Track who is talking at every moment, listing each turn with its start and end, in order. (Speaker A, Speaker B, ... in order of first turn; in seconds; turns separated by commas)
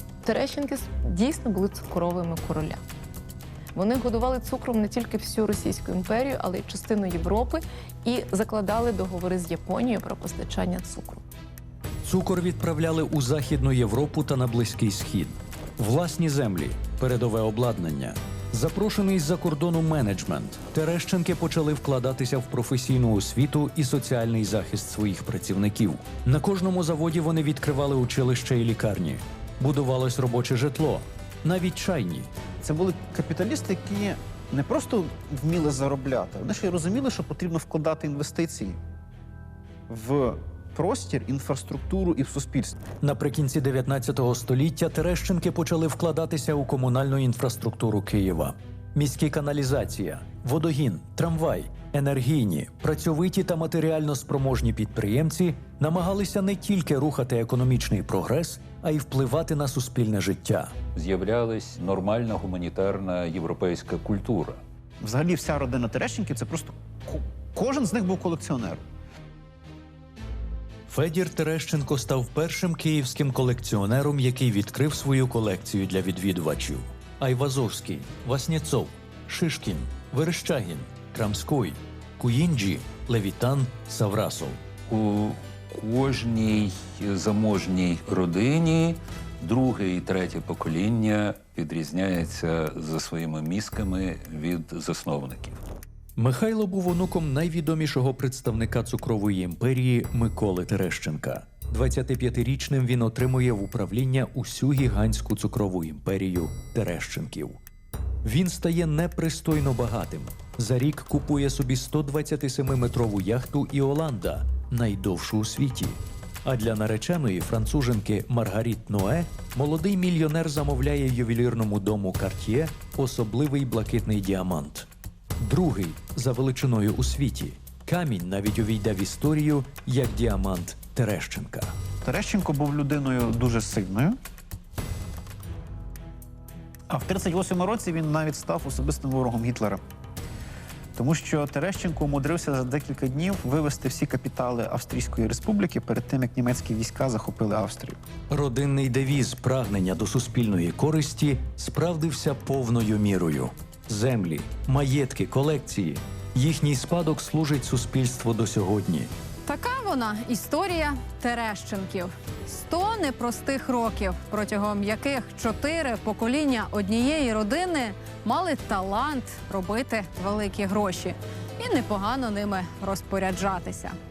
Speaker A: 0.2-2.8, Speaker A: 3.8-11.2, Speaker B: 12.0-32.3, Speaker C: 32.6-38.8, Speaker C: 39.9-42.7, Speaker B: 43.0-60.7, Speaker D: 61.0-64.6, Speaker C: 65.0-68.8, Speaker B: 70.9-84.6, Speaker D: 84.9-95.6, Speaker B: 96.2-107.6, Speaker B: 108.2-124.9, Speaker B: 125.4-131.7, Speaker C: 132.0-134.2, Speaker C: 136.9-139.8, Speaker C: 140.9-148.0, Speaker B: 148.3-159.1, Speaker E: 159.5-174.0